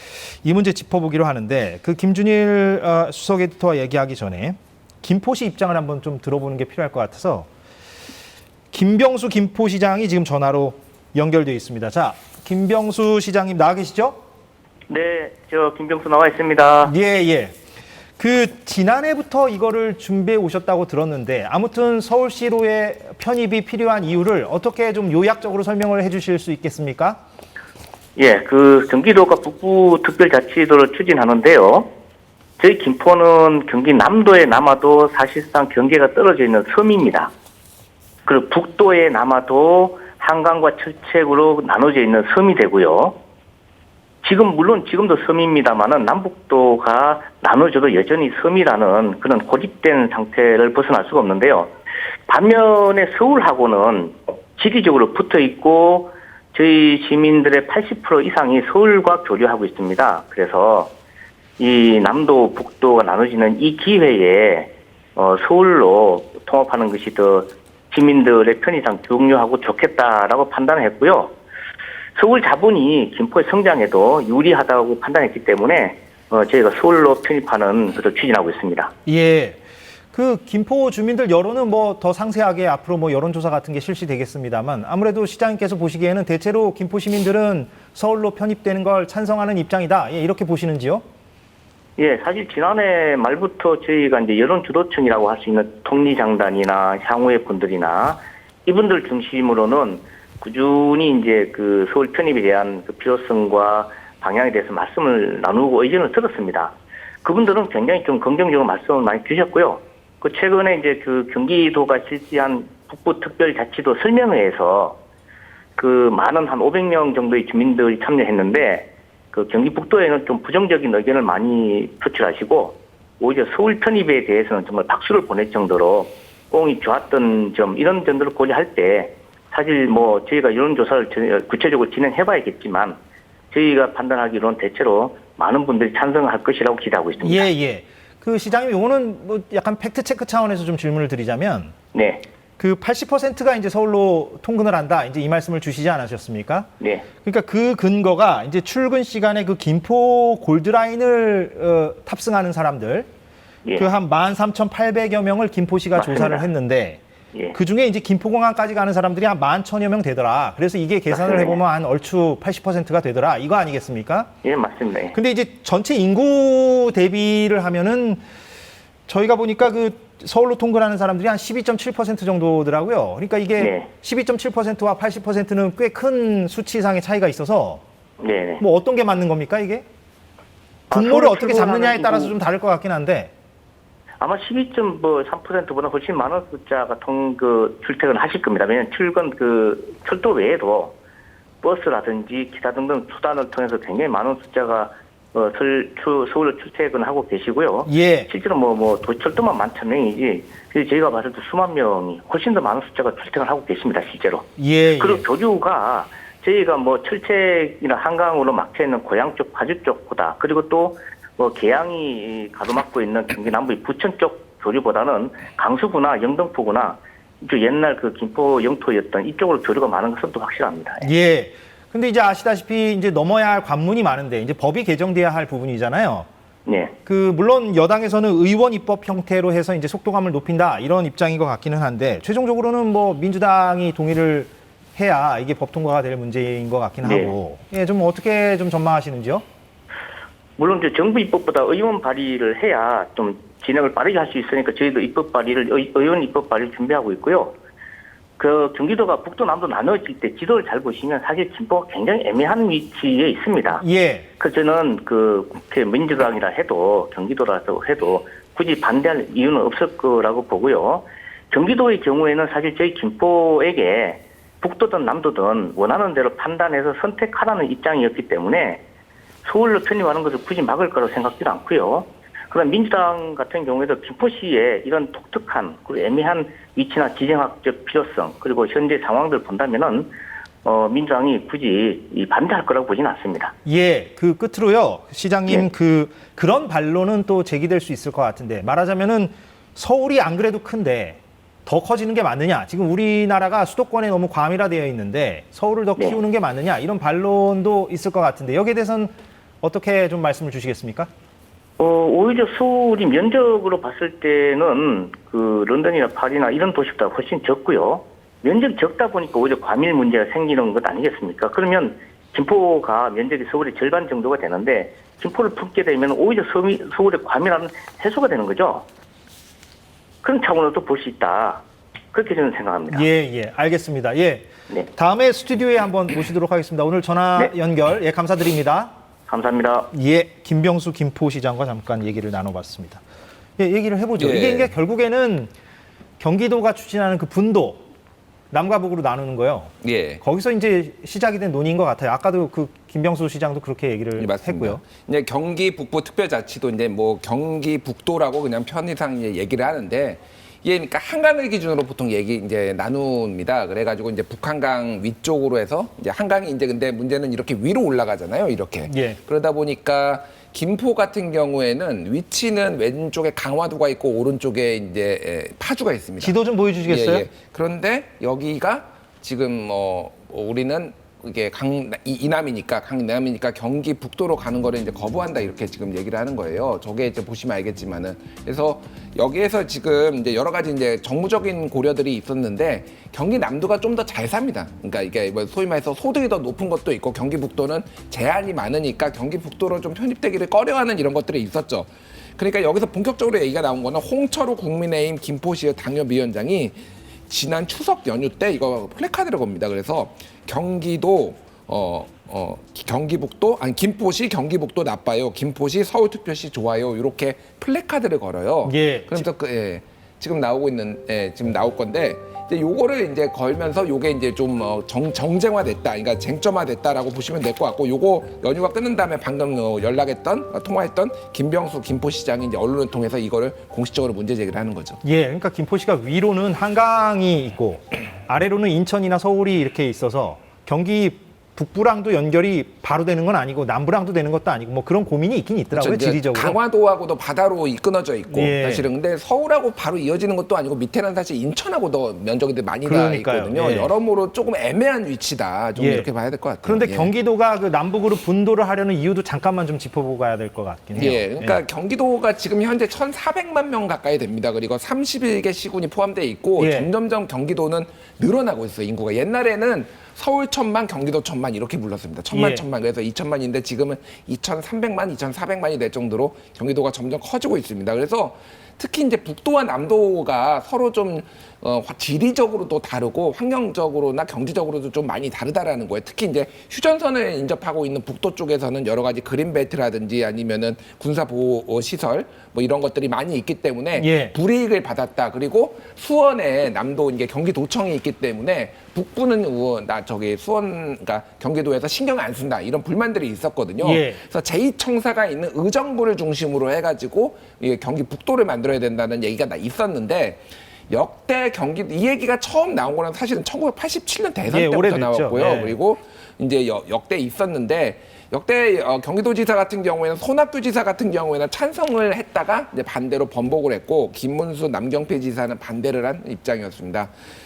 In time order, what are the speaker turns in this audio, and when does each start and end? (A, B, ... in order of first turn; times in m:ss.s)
0:00.4-0:07.5 A
0:08.7-0:14.2 A
0:14.9-0:16.9 B
0:16.8-0:17.6 A
0:18.2-0:27.2 A
0:28.2-0:31.9 B
0:32.6-0:37.3 B
0:38.3-0:43.2 B
0:44.2-0:51.7 B
0:52.3-1:00.9 B
1:01.6-1:11.3 B
1:12.2-1:18.9 B
1:19.1-1:19.6 A
1:20.1-1:31.0 A
1:32.0-1:55.0 B
1:55.8-2:13.0 B
2:13.5-2:17.5 B
2:17.2-2:21.7 A
2:21.9-2:22.3 B
2:22.6-2:26.7 A
2:26.8-2:27.1 B
2:27.2-2:33.1 A
2:33.8-2:37.0 A
2:36.0-2:36.5 B
2:37.5-2:44.3 A
2:41.1-2:41.6 B
2:44.4-2:45.2 B
2:45.1-2:48.2 A
2:49.1-2:57.8 A
2:53.6-2:53.9 B
2:58.2-2:58.6 B
2:58.6-2:59.8 A
3:00.9-3:02.4 B
3:00.9-3:03.3 A
3:04.2-3:11.0 B
3:11.6-3:41.1 B
3:17.8-3:18.3 A
3:24.6-3:25.2 A
3:41.0-3:46.3 A
3:46.7-3:47.0 B
3:47.1-3:59.4 A
3:57.0-3:57.3 B
4:00.6-4:07.6 B
4:08.4-4:13.8 B
4:13.8-4:14.3 A
4:14.4-4:28.8 B
4:29.4-4:40.1 B
4:40.6-4:43.5 B
4:43.6-5:01.1 A
5:01.8-5:18.9 B
5:20.2-5:23.1 B
5:22.9-5:28.9 A
5:29.3-5:29.9 B
5:29.9-5:33.0 A
5:33.6-5:35.5 A
5:34.2-5:34.7 C
5:36.2-5:37.8 A
5:38.5-5:44.8 A
5:39.8-5:40.2 C
5:44.2-6:06.4 C
5:58.8-5:59.2 A
6:06.2-6:07.3 A
6:06.9-7:05.0 C
6:48.6-6:49.3 A
7:05.0-7:16.6 A
7:15.7-7:27.1 C
7:18.3-7:18.9 A
7:22.8-7:23.9 A
7:25.8-7:26.1 A
7:26.6-7:31.6 A
7:31.0-8:37.1 C
7:36.6-7:36.9 A
7:42.3-7:42.6 A
8:04.0-8:04.4 A
8:13.8-8:14.2 A
8:24.5-8:25.8 A